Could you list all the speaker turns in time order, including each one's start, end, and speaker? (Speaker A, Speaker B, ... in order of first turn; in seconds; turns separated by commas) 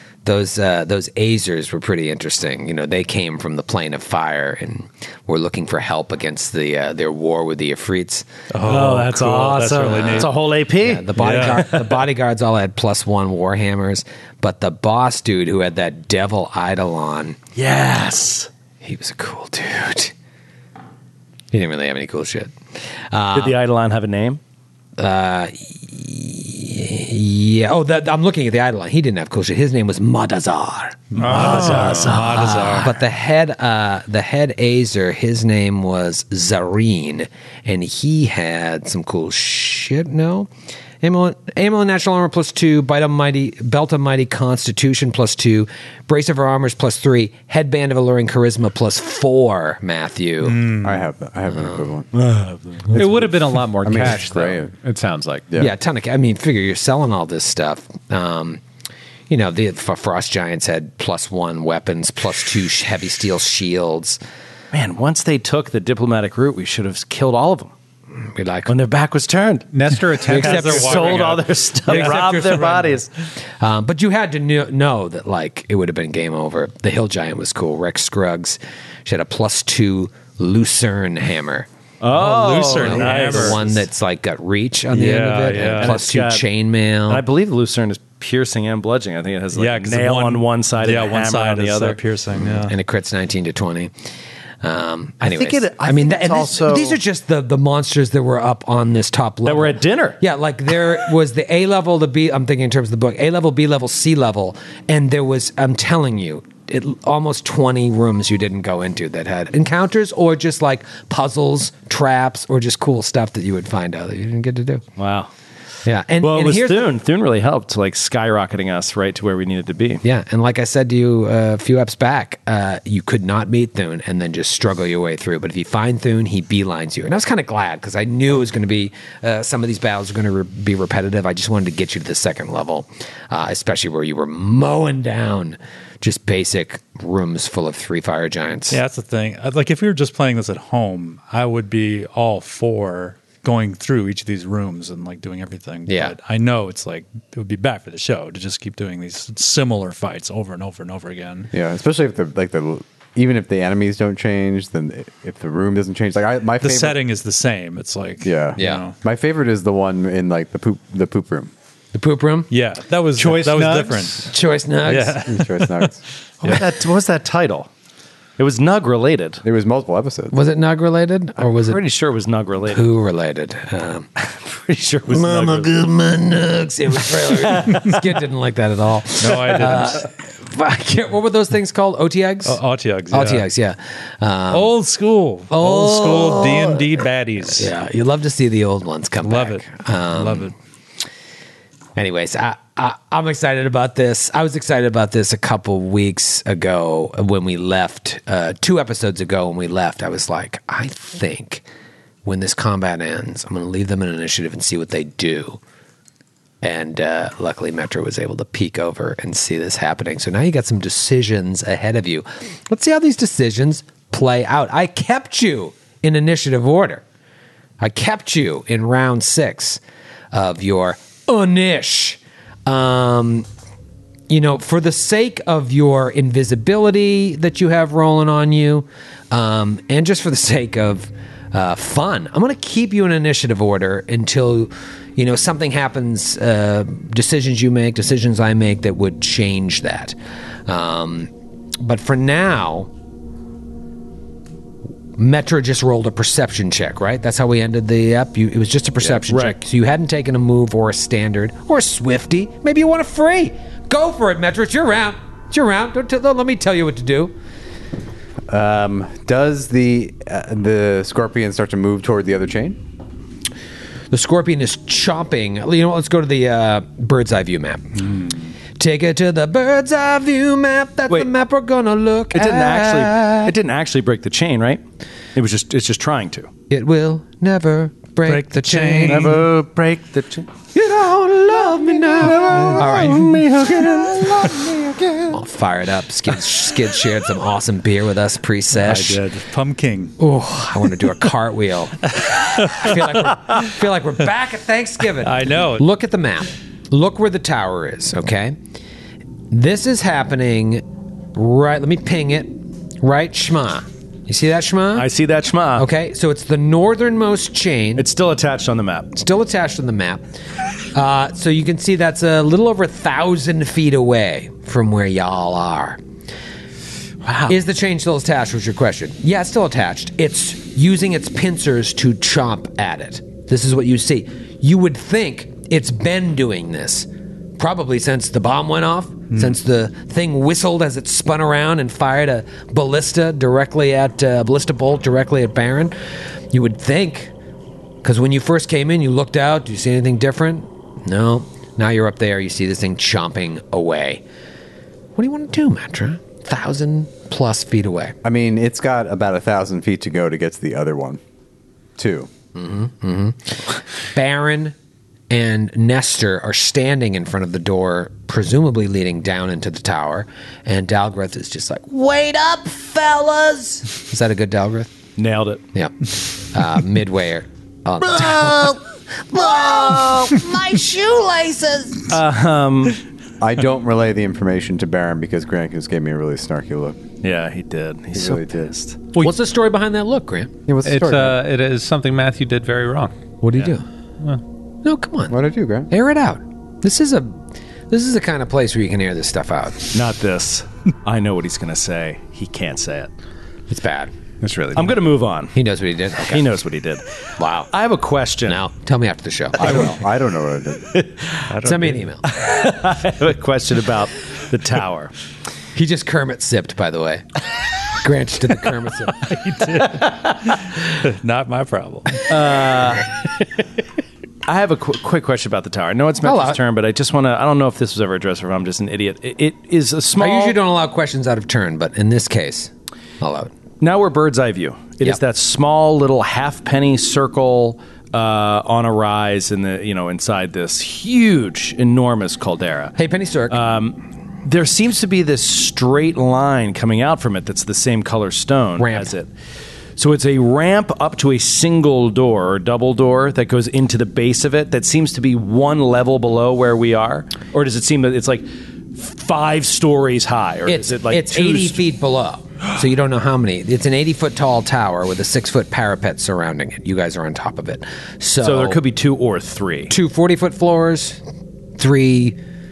Speaker A: 0.2-8.2, Speaker B: 8.5-10.3, Speaker C: 8.6-11.6, Speaker A: 10.8-17.4, Speaker B: 11.2-11.9, Speaker C: 17.6-18.5, Speaker A: 18.8-20.1, Speaker A: 21.5-22.5, Speaker A: 23.1-23.6, Speaker C: 23.3-24.4, Speaker A: 25.0-40.5, Speaker B: 31.1-33.0, Speaker D: 31.2-32.1, Speaker C: 31.3-33.0, Speaker A: 41.0-50.7, Speaker B: 50.4-51.0, Speaker E: 50.8-52.1, Speaker C: 52.1-53.0, Speaker E: 52.9-54.7, Speaker D: 52.9-55.5, Speaker A: 55.6-58.6, Speaker A: 59.3-64.2, Speaker C: 64.7-67.7, Speaker A: 68.2-68.7, Speaker C: 68.7-73.1, Speaker D: 69.7-71.1, Speaker B: 70.3-72.9, Speaker A: 70.3-71.2, Speaker A: 71.9-72.9, Speaker A: 73.6-81.7, Speaker C: 82.0-83.7, Speaker B: 82.1-83.8, Speaker A: 82.8-87.2, Speaker B: 84.9-86.0, Speaker C: 85.6-86.5, Speaker C: 87.1-92.0, Speaker B: 89.5-92.7, Speaker A: 92.4-93.9, Speaker A: 94.6-114.8, Speaker C: 95.2-97.0, Speaker C: 99.5-100.2, Speaker C: 115.0-115.3, Speaker A: 115.8-116.9, Speaker C: 116.2-120.0, Speaker A: 120.0-138.8, Speaker B: 138.7-151.5, Speaker A: 145.9-146.2, Speaker E: 151.5-157.0, Speaker B: 156.6-159.0, Speaker E: 158.2-161.5, Speaker A: 158.6-158.8, Speaker A: 161.9-162.5, Speaker B: 162.5-164.3, Speaker D: 163.2-164.3, Speaker A: 164.3-165.3, Speaker B: 164.9-165.9, Speaker E: 165.3-166.0, Speaker C: 166.4-167.7, Speaker C: 168.4-169.4, Speaker E: 169.4-170.4, Speaker A: 170.3-171.8, Speaker C: 171.5-172.9, Speaker A: 172.7-174.1, Speaker C: 174.2-175.7, Speaker A: 175.1-182.6, Speaker C: 177.1-178.0, Speaker B: 179.2-180.1, Speaker B: 182.4-183.5, Speaker A: 183.1-184.7, Speaker B: 184.5-187.7, Speaker A: 185.5-186.9, Speaker A: 187.5-190.5, Speaker B: 189.2-190.5, Speaker A: 192.0-201.6, Speaker A: 202.2-205.6, Speaker A: 206.6-217.0, Speaker A: 217.8-219.8, Speaker A: 220.3-223.5, Speaker A: 224.3-240.2, Speaker A: 240.7-242.9, Speaker A: 245.2-257.3, Speaker C: 249.3-249.6, Speaker E: 258.5-262.8, Speaker A: 264.1-268.1, Speaker A: 268.8-273.5, Speaker C: 272.3-274.8, Speaker C: 275.4-276.5, Speaker A: 276.7-279.5, Speaker B: 278.3-279.5, Speaker C: 279.1-280.5, Speaker A: 280.7-283.4, Speaker C: 282.2-285.4, Speaker A: 285.3-289.2, Speaker B: 288.7-290.1, Speaker A: 290.2-298.6, Speaker B: 292.1-293.7, Speaker B: 295.2-295.9, Speaker A: 299.5-300.8, Speaker A: 301.3-305.1, Speaker C: 304.9-305.9, Speaker A: 305.8-308.1, Speaker C: 308.0-309.1, Speaker A: 309.1-310.2, Speaker A: 310.9-316.0, Speaker C: 317.2-317.6, Speaker A: 317.5-336.0, Speaker B: 329.3-329.6, Speaker A: 336.5-337.3, Speaker A: 338.0-344.2, Speaker A: 345.2-348.2, Speaker E: 348.2-351.2, Speaker E: 352.0-352.3, Speaker A: 352.6-354.8, Speaker A: 355.3-364.9, Speaker C: 365.2-365.6, Speaker A: 366.5-372.1, Speaker C: 372.1-373.0, Speaker E: 373.4-377.0, Speaker C: 377.2-379.0, Speaker E: 378.1-378.5, Speaker A: 379.2-380.5, Speaker E: 380.7-381.4, Speaker D: 380.8-383.1, Speaker A: 383.4-383.8, Speaker A: 384.8-385.4, Speaker E: 385.3-385.9, Speaker A: 385.9-387.4, Speaker A: 387.9-389.9, Speaker C: 389.9-393.1, Speaker A: 393.7-394.1, Speaker D: 394.4-394.9, Speaker C: 394.8-395.6, Speaker A: 395.5-396.5, Speaker C: 396.3-397.0, Speaker A: 397.4-397.7, Speaker C: 397.7-398.6, Speaker A: 398.5-400.0, Speaker E: 399.6-400.9, Speaker C: 400.9-401.4, Speaker B: 401.5-402.1, Speaker A: 401.6-402.3, Speaker C: 402.3-405.1, Speaker A: 405.8-407.2, Speaker A: 408.0-409.4, Speaker B: 409.6-412.3, Speaker C: 409.6-410.1, Speaker C: 412.3-413.1, Speaker C: 414.5-420.6, Speaker A: 416.2-416.6, Speaker A: 420.2-423.5, Speaker C: 423.8-433.0, Speaker A: 433.0-433.6, Speaker C: 433.5-439.3, Speaker A: 438.8-439.1, Speaker C: 440.0-451.8, Speaker A: 450.7-458.8, Speaker C: 458.4-459.9, Speaker A: 459.9-461.2, Speaker A: 461.8-462.4